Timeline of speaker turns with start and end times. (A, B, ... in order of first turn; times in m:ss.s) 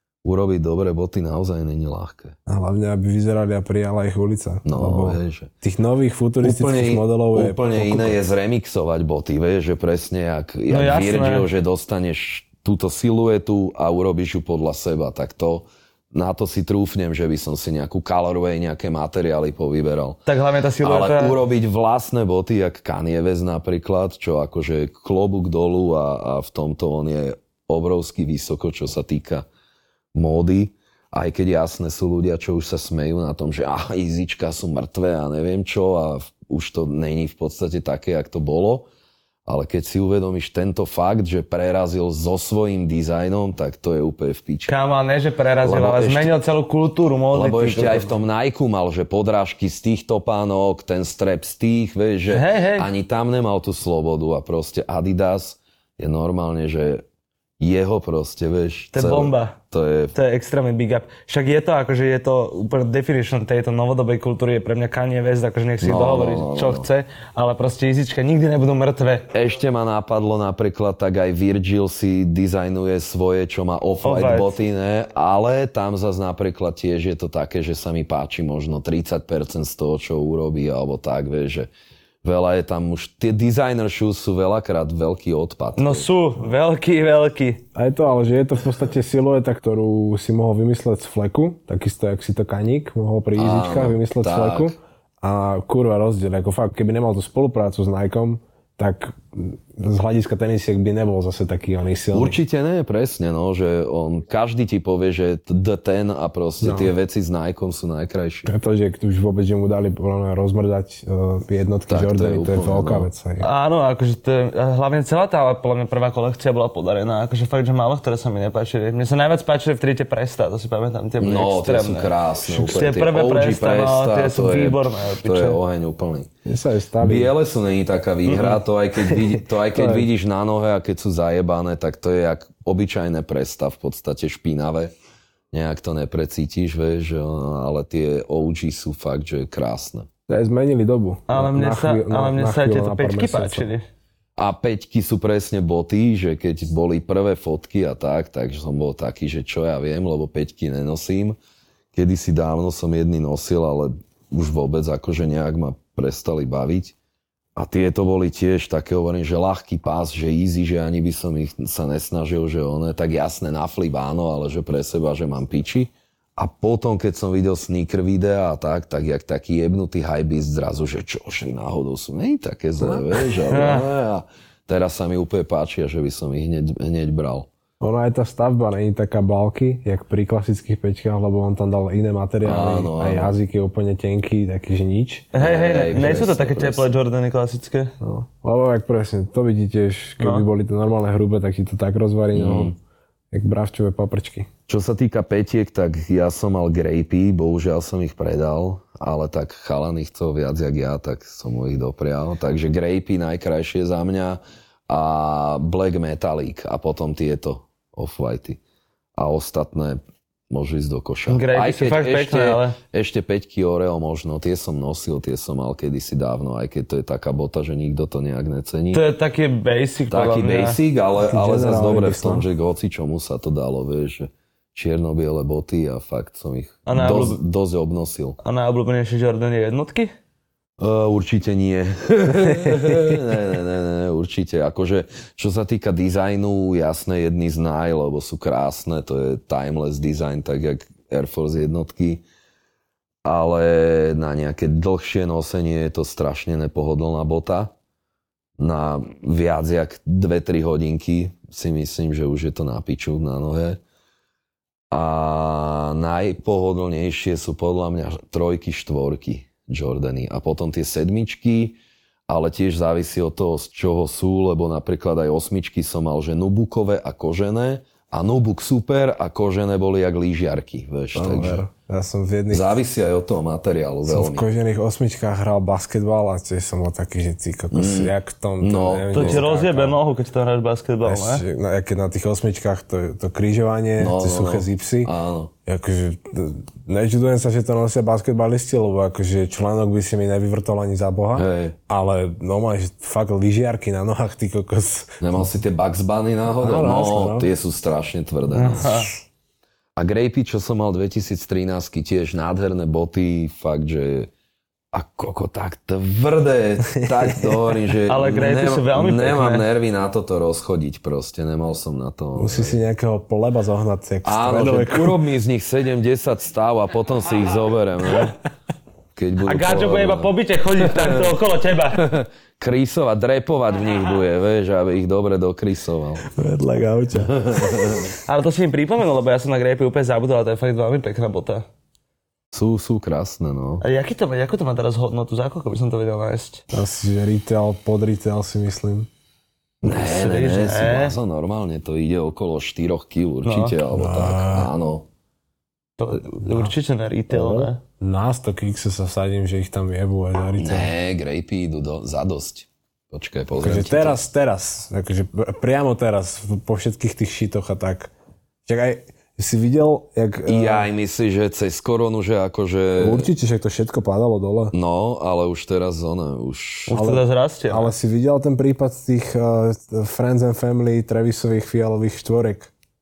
0:00.2-0:02.3 A
0:02.5-0:08.2 B
0:04.6-0:05.5 A
0:06.4-0:20.2 A
0:10.7-0:11.5 C
0:20.2-0:21.4 C
0:20.8-0:29.4 A
0:30.1-0:38.9 A
0:39.4-0:44.7 A
0:44.7-0:48.1 C
0:45.6-0:46.3 A
0:47.3-0:57.0 A
0:52.3-0:52.9 C
0:57.6-1:00.1 A
0:58.9-0:59.6 C
1:00.1-1:09.3 C
1:05.8-1:06.9 A
1:09.3-1:21.7 A
1:14.0-1:14.5 C
1:22.2-1:26.1 A
1:25.8-1:27.6 C
1:27.7-1:42.4 B
1:33.4-1:34.7 A
1:42.1-1:48.5 A
1:46.6-1:46.9 B
1:48.4-1:53.4 B
1:51.9-1:53.1 A
1:53.4-2:05.6 C
2:01.2-2:06.3 A
2:02.4-2:02.9 B
2:06.4-2:07.3 B
2:07.0-2:14.9 A
2:09.0-2:10.1 B
2:15.5-2:20.1 A
2:20.3-2:23.7 B
2:21.3-2:23.8 C
2:24.4-2:31.4 A
2:31.9-2:36.9 A
2:37.6-2:57.5 A
2:52.8-2:53.0 B
2:53.5-2:53.9 C
2:57.8-3:05.3 B
3:02.4-3:03.3 A
3:05.3-3:07.9 C
3:05.3-3:06.9 A
3:08.0-3:12.8 B
3:10.2-3:10.4 C
3:12.3-3:12.7 A
3:13.3-3:14.5 B
3:14.7-3:28.6 A
3:29.2-3:39.0 A
3:31.3-3:32.8 C
3:38.9-3:40.8 C
3:40.1-3:48.4 A
3:41.2-3:42.4 B
3:46.8-3:47.4 C
3:48.4-3:50.1 C
3:50.8-4:02.2 A
4:03.2-4:07.7 A
4:08.6-4:13.8 A
4:14.9-4:31.6 A
4:31.1-4:32.8 B
4:32.5-4:34.4 A
4:34.0-4:40.0 B
4:37.7-4:39.4 A
4:39.1-4:41.4 C
4:41.0-4:45.1 B
4:44.0-4:45.5 A
4:45.6-4:55.5 B
4:51.3-4:51.8 A
4:55.2-4:59.0 A
4:56.6-4:57.5 B
4:58.5-4:59.1 C
5:00.0-5:04.3 A
5:04.9-5:12.8 A
5:06.9-5:07.6 B
5:08.1-5:09.6 C
5:12.4-5:15.2 B
5:14.2-5:18.4 A
5:19.1-5:21.3 A
5:19.4-5:22.0 C
5:21.9-5:26.2 A
5:26.3-5:28.1 B
5:27.2-5:28.1 A
5:28.2-5:31.6 C
5:32.5-5:33.8 A
5:33.8-5:36.6 C
5:36.7-5:39.1 B
5:39.8-5:45.0 A
5:39.8-5:41.2 C
5:43.4-5:43.8 C
5:43.9-5:44.7 B
5:46.0-5:47.8 C
5:47.3-5:50.9 B
5:50.6-5:54.2 A
5:53.6-5:58.1 B
5:58.6-6:00.9 B
6:00.4-6:03.3 A
6:03.0-6:04.7 B
6:04.7-6:07.0 A
6:06.9-6:07.9 C
6:06.9-6:12.7 B